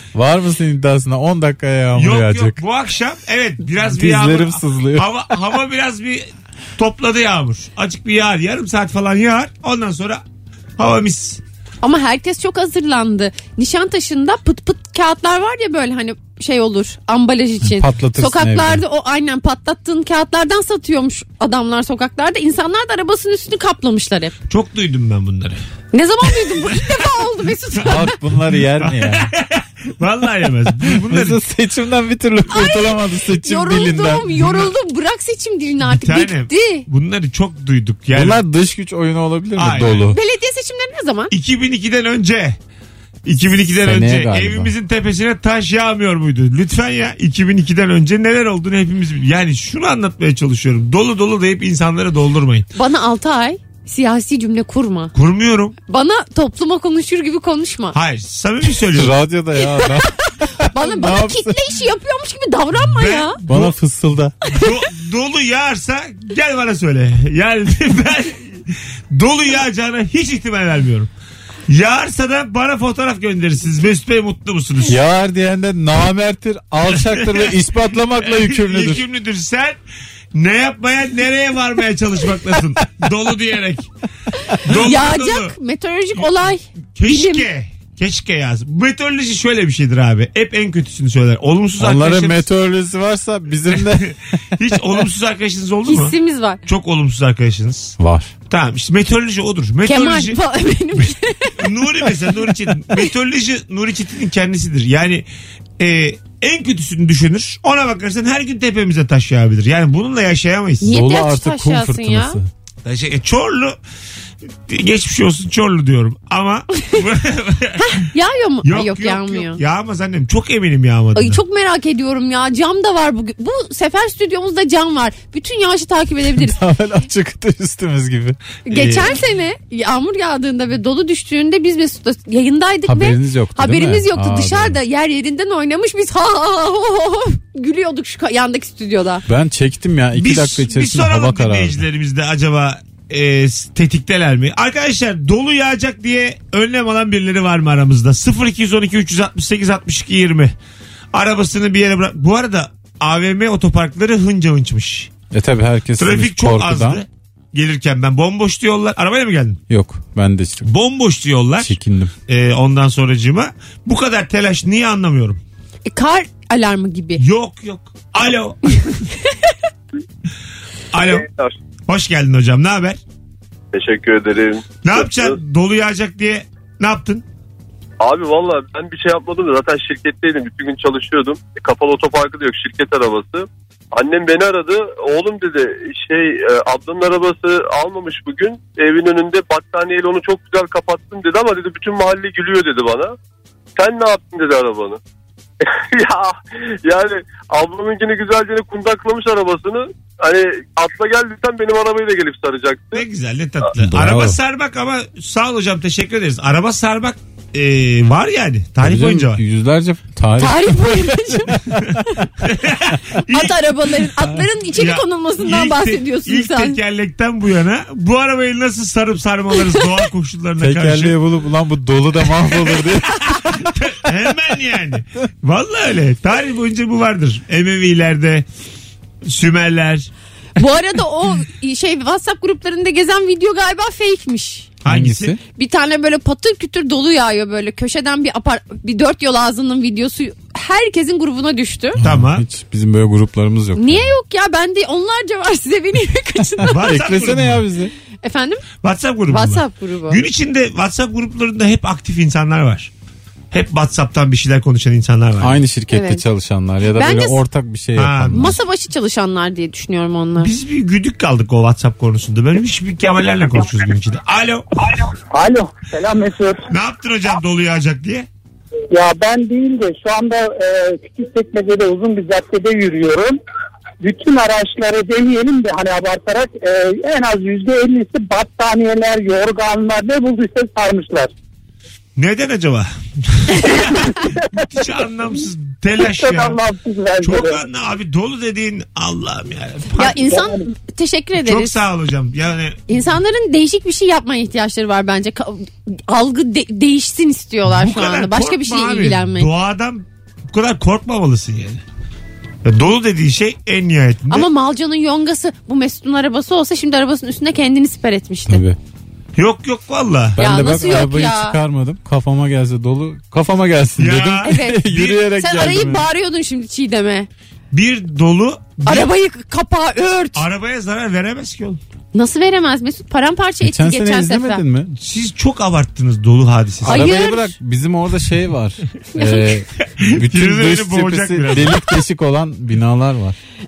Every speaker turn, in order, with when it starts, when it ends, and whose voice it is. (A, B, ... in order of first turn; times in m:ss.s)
0:00.1-0:02.6 A
0:02.0-0:10.2 B
0:03.8-0:05.1 A
0:10.8-0:11.4 B
0:11.8-0:24.3 C
0:17.6-0:18.8 A
0:24.5-0:25.6 B
0:25.9-0:28.1 C
0:26.4-0:26.8 B
0:27.8-0:29.3 A
0:28.8-0:31.4 B
0:30.8-0:34.3 A
0:32.5-0:36.8 C
0:34.4-0:34.7 B
0:35.8-0:38.4 B
0:38.1-0:40.2 A
0:39.6-0:40.1 B
0:40.1-0:41.3 C
0:41.3-0:42.6 B
0:43.2-0:52.7 B
0:43.8-0:44.7 A
0:52.7-0:55.1 C
0:55.1-0:55.8 B
0:55.9-0:58.0 C
0:57.9-0:59.2 B
0:58.9-1:01.6 A
0:59.6-1:03.4 C
1:02.8-1:03.7 B
1:03.5-1:04.3 A
1:04.4-1:04.7 C
1:04.5-1:11.1 B
1:11.7-1:15.0 B
1:14.8-1:19.0 A
1:16.9-1:17.5 B
1:18.2-1:19.8 B
1:20.3-1:23.9 B
1:24.6-1:25.5 B
1:24.6-1:27.5 C
1:27.0-1:32.4 B
1:31.8-1:34.6 A
1:33.7-1:38.0 B
1:35.8-1:36.6 C
1:38.0-1:38.3 A
1:38.5-1:40.4 B
1:39.8-1:41.7 C
1:41.6-1:45.2 B
1:45.8-1:50.9 B
1:50.8-1:52.4 C
1:50.8-1:52.5 A
1:52.8-1:53.8 B
1:54.7-1:58.0 B
1:57.8-1:59.6 C
1:58.6-2:01.4 B
2:01.1-2:06.6 C
2:06.3-2:08.4 A
2:08.6-2:19.2 C
2:08.7-2:09.2 B
2:12.8-2:14.8 A
2:19.3-2:21.8 A
2:20.1-2:30.5 B
2:31.1-2:35.1 B
2:35.3-2:37.0 A
2:36.0-2:39.6 B
2:39.7-2:40.7 A
2:40.6-2:41.7 B
2:41.6-2:42.1 A
2:42.3-2:45.4 B
2:45.8-2:47.2 C
2:47.2-2:49.1 B
2:50.9-2:51.2 B
2:51.1-2:51.5 D
2:51.9-2:53.0 B
2:53.7-2:55.4 D
2:54.8-2:57.2 B
2:58.0-3:13.1 D
3:13.8-3:15.0 D
3:15.6-3:23.0 D
3:22.9-3:29.4 B
3:23.8-3:24.4 A
3:28.8-3:32.0 A
3:30.4-3:31.5 C
3:31.8-3:33.6 B
3:33.3-3:36.8 C
3:34.7-3:41.2 B
3:40.6-3:43.6 A
3:42.7-3:48.4 B
3:49.2-3:50.1 B
3:50.6-3:54.7 C
3:54.8-3:55.4 B
3:54.8-3:55.4 A
3:55.6-4:02.0 C
4:02.0-4:04.1 A
4:02.0-4:02.4 B
4:03.8-4:06.8 C
4:06.6-4:07.9 A
4:06.6-4:07.6 B
4:08.2-4:08.6 C
4:08.8-4:12.9 B
4:09.3-4:10.2 C
4:13.5-4:15.6 B
4:15.4-4:18.6 A
4:15.9-4:16.2 C
4:16.9-4:17.4 C
4:18.0-4:18.6 B
4:18.3-4:20.5 C
4:20.4-4:24.8 B
4:25.1-4:26.7 E
4:26.7-4:28.3 B
4:28.9-4:33.4 E
4:34.0-4:41.3 E
4:42.2-4:46.6 B
4:44.0-4:44.3 E
4:46.0-4:47.6 E
4:47.2-4:50.2 B
4:50.0-4:51.8 C
4:50.3-4:50.6 E
4:51.4-4:52.8 B
4:52.9-4:59.5 C
4:57.6-5:01.8 B
5:02.6-5:04.5 B
5:04.3-5:08.6 C
5:08.5-5:08.8 A
5:09.4-5:10.4 B
5:10.4-5:16.1 A
5:10.4-5:11.6 C
5:14.0-5:15.8 B
5:14.4-5:14.8 C
5:15.4-5:17.3 C
5:17.7-5:19.1 B
5:18.8-5:20.4 C
5:20.3-5:21.8 B
5:22.1-5:24.6 C
5:23.6-5:24.9 A
5:25.0-5:27.2 B
5:26.8-5:33.4 A
5:26.8-5:27.5 C
5:29.1-5:29.4 C
5:30.0-5:31.9 B